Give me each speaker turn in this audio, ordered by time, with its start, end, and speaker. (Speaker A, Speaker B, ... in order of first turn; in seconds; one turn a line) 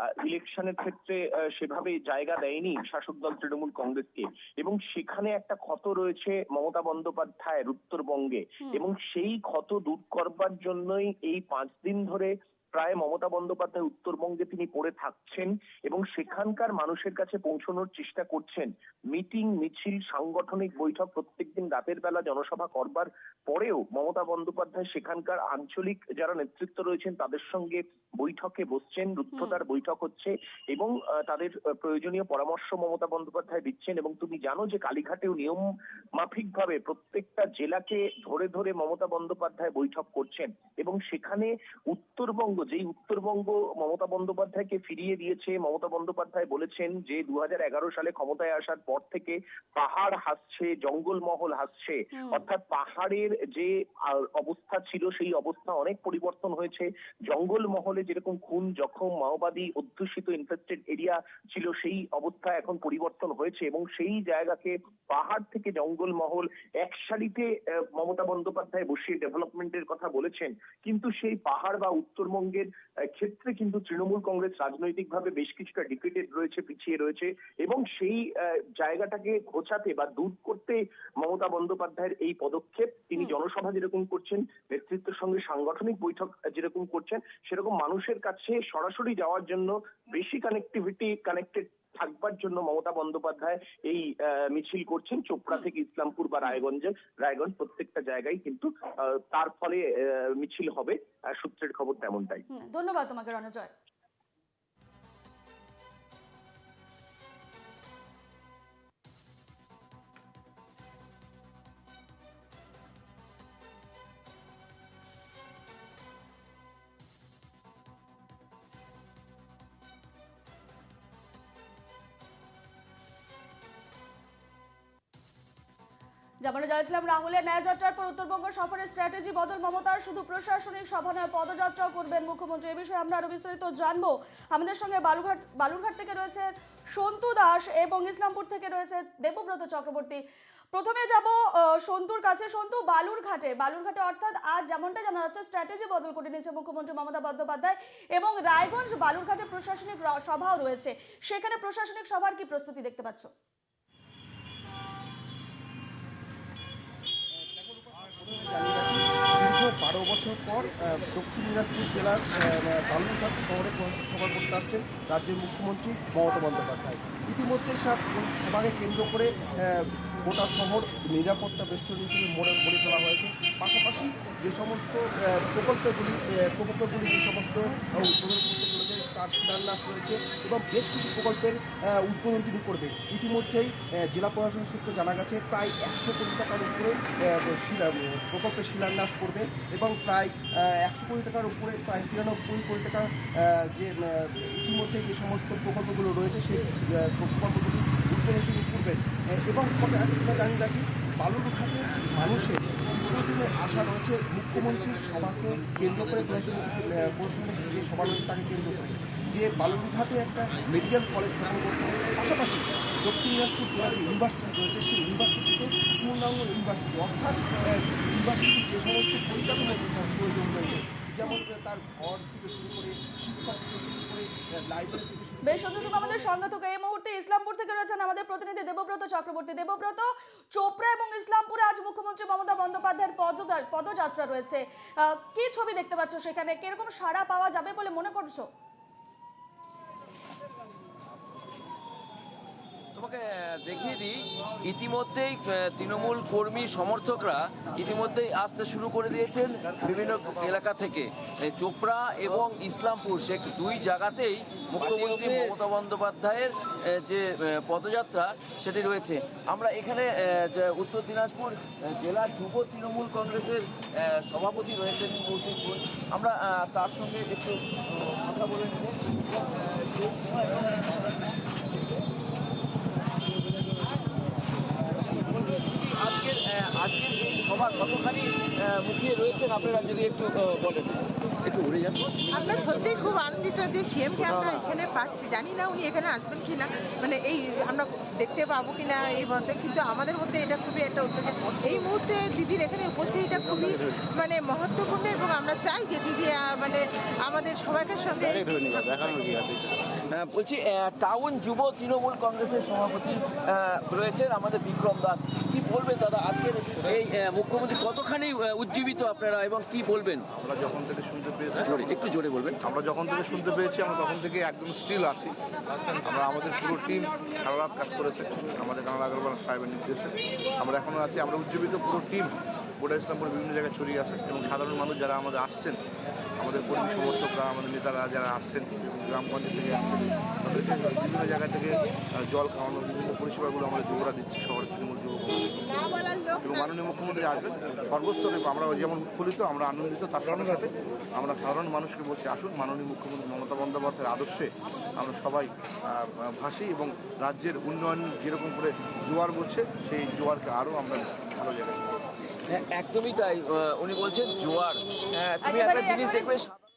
Speaker A: 0.2-102.4
Speaker B: 52.2-52.4
Speaker B: 102.5-103.7
Speaker B: 126.4-140.2
Speaker B: 140.7-153.3
Speaker C: 157.4-226.4
Speaker B: 225.4-238.5
Speaker D: 242.9-271.0
Speaker D: 275.2-282.8
Speaker E: 282.4-298.4
Speaker F: 284.2-284.7
Speaker F: 293.3-294.1
Speaker F: 298.2-300.0
Speaker D: 300.1-310.2
Speaker F: 310.3-315.4
Speaker D: 311.6-312.6
Speaker F: 316.0-325.8
Speaker F: 326.4-352.0
Speaker D: 352.5-356.5
Speaker B: 355.4-356.3